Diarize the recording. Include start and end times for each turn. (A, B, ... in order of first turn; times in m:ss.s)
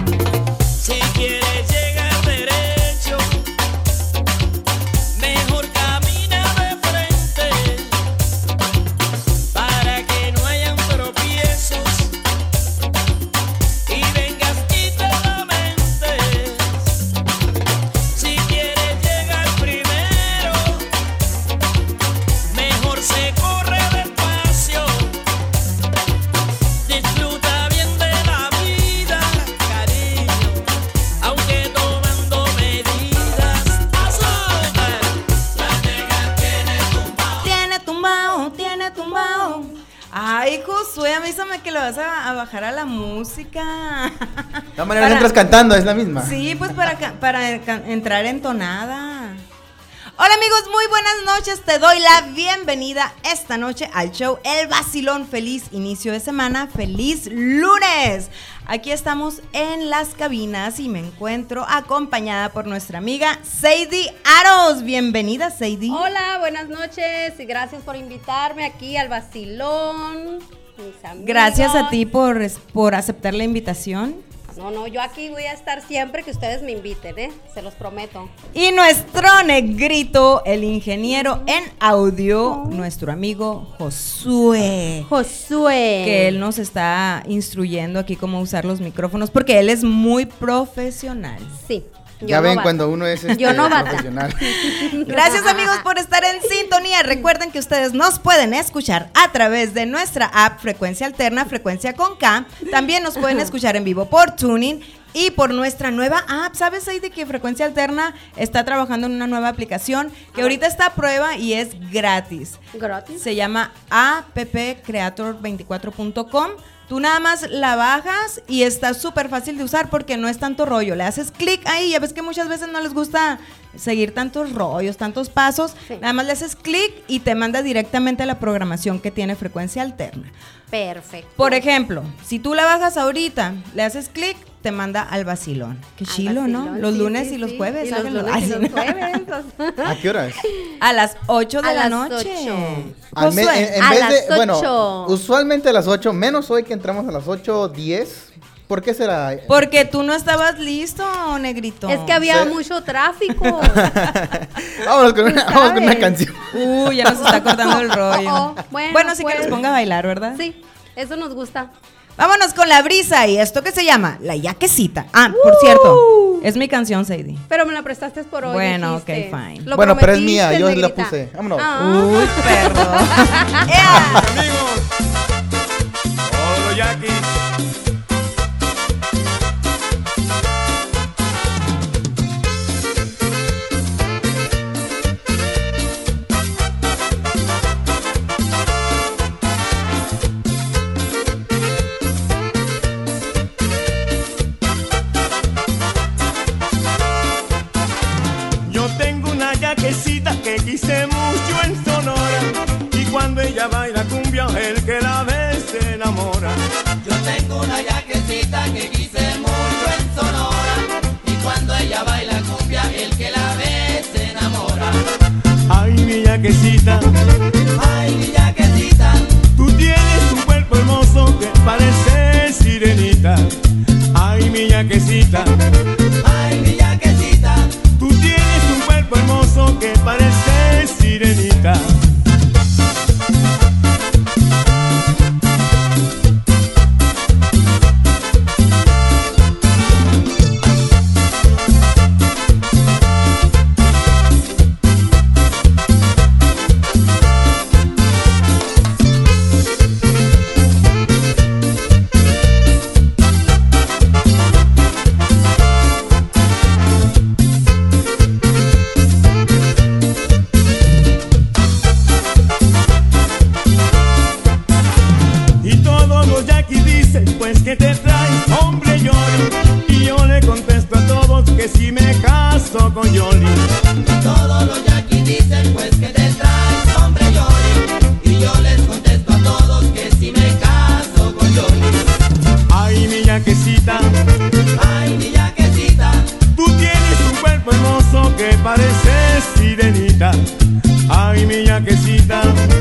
0:00.8-0:03.4 A
0:05.1-0:08.0 A
0:09.5-0:12.2 A
0:13.9-0:16.9 A
0:18.1-0:20.8 A
0:22.5-0:25.2 A
0:26.8-0:30.7 A
0:31.2-0:35.2 A
0:35.6-0:37.4 B
0:37.4-0:45.6 C
0:44.8-0:46.4 D
0:46.2-0:49.4 C
0:50.2-1:06.1 C
1:05.9-1:12.0 E
1:11.2-1:14.2 C
1:14.5-1:18.3 E
1:18.5-1:25.1 C
1:21.1-1:21.6 E
1:22.4-1:22.9 E
1:25.0-1:26.4 E
1:26.0-1:31.6 C
1:31.6-1:35.8 E
1:32.2-1:34.9 D
1:33.3-1:34.0 C
1:35.0-1:52.6 C
1:50.3-1:50.6 E
1:52.7-1:53.2 E
1:53.2-2:10.3 C
2:10.7-2:11.6 E
2:11.4-2:19.2 C
2:16.1-2:20.0 E
2:19.8-2:20.4 D
2:20.8-2:23.7 C
2:21.6-2:22.9 E
2:23.1-2:29.7 D
2:23.8-2:25.2 E
2:29.5-2:32.2 C
2:31.8-2:34.0 E
2:32.2-2:32.5 D
2:33.5-2:37.8 D
2:35.2-2:36.2 E
2:36.5-2:40.4 C
2:37.2-2:39.6 E
2:40.4-2:41.7 E
2:42.2-2:47.4 C
2:45.3-2:46.5 E
2:47.5-2:53.6 E
2:48.4-2:49.7 C
2:49.7-2:52.0 D
2:51.7-2:54.3 C
2:54.0-2:54.9 F
2:56.2-2:57.4 F
3:18.6-3:26.6 F
3:27.0-3:35.0 B
3:35.7-3:37.1 F
3:37.7-3:39.4 B
3:39.5-3:43.5 F
3:44.1-3:45.6 F
3:46.2-3:47.8 B
3:48.0-3:51.9 F
4:25.6-4:33.7 F
4:34.1-4:42.2 B
4:42.7-4:44.1 F
4:44.7-4:46.4 B
4:46.5-4:50.4 F
4:51.1-4:52.7 F